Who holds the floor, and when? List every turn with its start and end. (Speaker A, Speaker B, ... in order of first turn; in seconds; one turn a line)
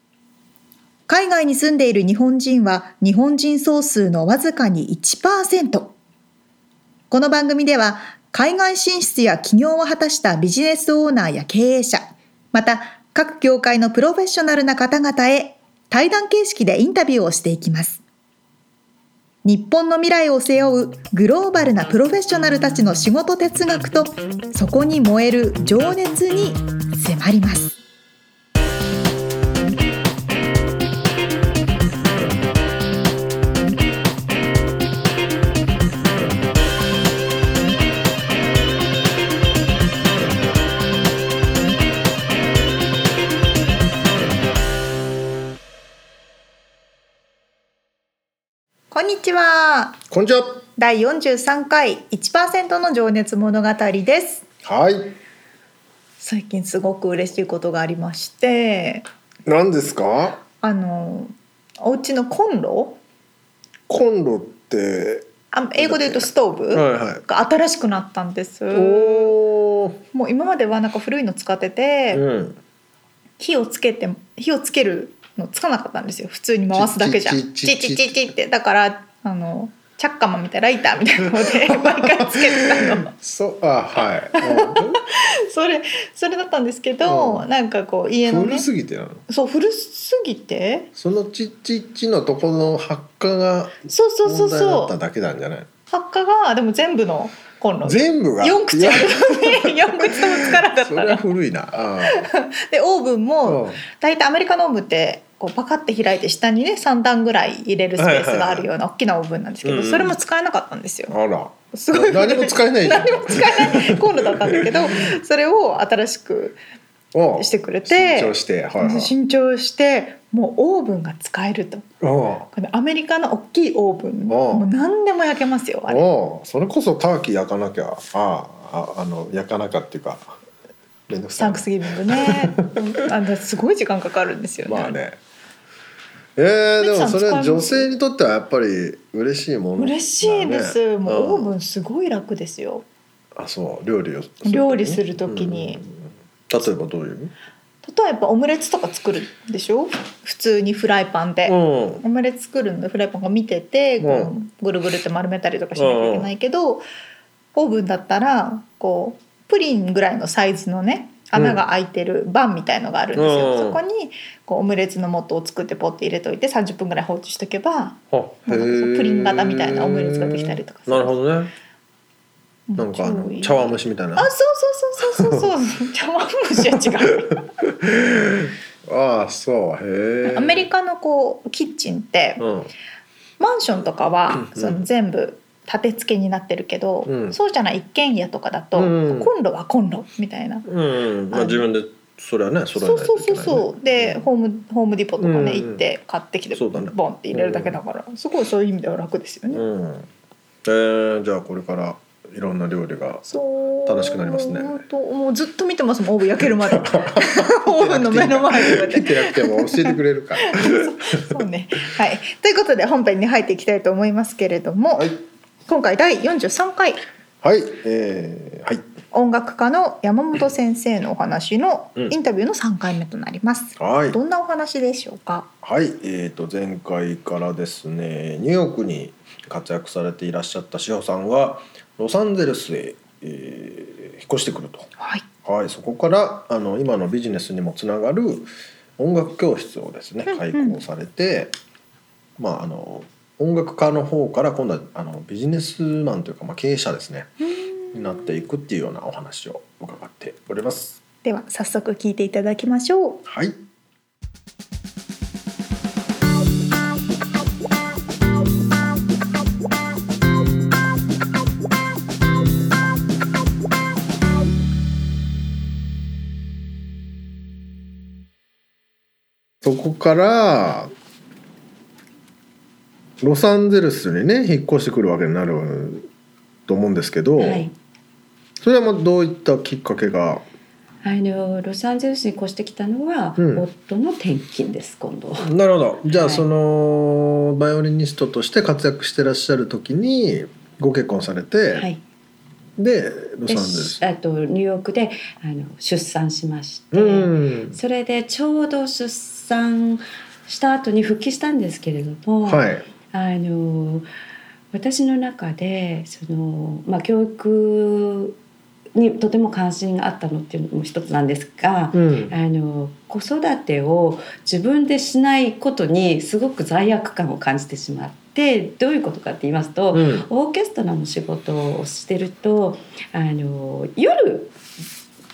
Speaker A: 1.1-5.9
Speaker A: 7.1-18.0
Speaker A: 19.4-27.8
Speaker A: 48.9-50.0
Speaker B: 50.1-50.6
Speaker A: 50.8-54.4
Speaker B: 54.6-55.1
Speaker A: 56.2-59.1
Speaker B: 59.5-60.4
Speaker A: 60.6-63.0
Speaker B: 63.9-67.2
Speaker A: 65.5-69.3
Speaker B: 68.7-70.0
Speaker A: 70.1-72.2
Speaker B: 72.1-72.6
Speaker A: 73.4-83.1
Speaker B: 76.7-78.2
Speaker B: 81.7-85.0
Speaker A: 84.3-88.7
Speaker B: 87.0-87.5
Speaker B: 88.2-89.2
Speaker A: 89.3-90.9
Speaker B: 91.0-95.7
Speaker A: 93.9-94.9
Speaker A: 95.9-101.2
Speaker B: 97.8-102.2
Speaker A: 102.0-111.1
Speaker B: 103.4-103.8
Speaker B: 108.0-108.7
Speaker B: 109.6-110.2
Speaker B: 111.1-115.1
Speaker A: 111.7-116.6
Speaker B: 117.1-119.1
Speaker A: 117.3-121.8
Speaker B: 122.0-122.5
Speaker A: 122.5-126.0
Speaker B: 124.3-124.7
Speaker B: 125.9-130.3
Speaker B: 131.1-132.8
Speaker A: 131.4-135.0
Speaker B: 134.6-135.2
Speaker B: 136.3-141.5
Speaker A: 136.8-137.9
Speaker A: 139.8-142.8
Speaker B: 143.3-147.3
Speaker A: 144.4-145.8
Speaker A: 147.8-156.8
Speaker B: 151.4-152.0
Speaker B: 154.0-154.3
Speaker B: 155.7-156.3
Speaker A: 157.5-171.2
Speaker B: 161.3-161.6
Speaker B: 163.2-163.8
Speaker B: 168.1-171.5
Speaker A: 172.7-177.4
Speaker B: 172.8-174.3
Speaker B: 175.0-175.5
Speaker B: 176.6-180.7
Speaker A: 180.2-182.4
Speaker B: 182.4-182.7
Speaker A: 183.4-190.7
Speaker B: 184.4-184.8
Speaker B: 187.1-187.3
Speaker B: 188.7-189.3
Speaker B: 190.7-194.2
Speaker A: 191.3-191.6
Speaker A: 192.8-199.6
Speaker B: 195.2-195.8
Speaker B: 196.5-197.8
Speaker B: 199.5-200.1
Speaker B: 200.6-203.2
Speaker A: 203.2-215.1
Speaker B: 203.8-204.8
Speaker B: 206.4-211.1
Speaker A: 215.7-217.0
Speaker B: 217.4-218.8
Speaker A: 219.1-225.5
Speaker B: 223.8-224.2
Speaker B: 225.6-234.9
Speaker A: 235.0-235.2
Speaker B: 235.4-241.5
Speaker A: 240.3-240.8
Speaker B: 242.4-247.3
Speaker A: 247.4-248.3
Speaker B: 247.9-251.0
Speaker A: 251.2-253.2
Speaker B: 253.2-253.6
Speaker B: 269.6-270.9
Speaker B: 273.2-276.1
Speaker B: 276.7-277.6
Speaker C: 277.4-277.7
Speaker B: 278.6-280.4
Speaker C: 281.0-285.5
Speaker B: 283.4-283.6
Speaker B: 285.4-291.9
Speaker C: 286.0-286.4
Speaker C: 291.7-292.0
Speaker B: 292.8-294.0
Speaker C: 293.5-304.1
Speaker B: 296.9-297.8
Speaker B: 302.4-302.9
Speaker C: 304.7-308.4
Speaker C: 308.9-324.5
Speaker B: 311.9-312.3
Speaker B: 319.9-320.2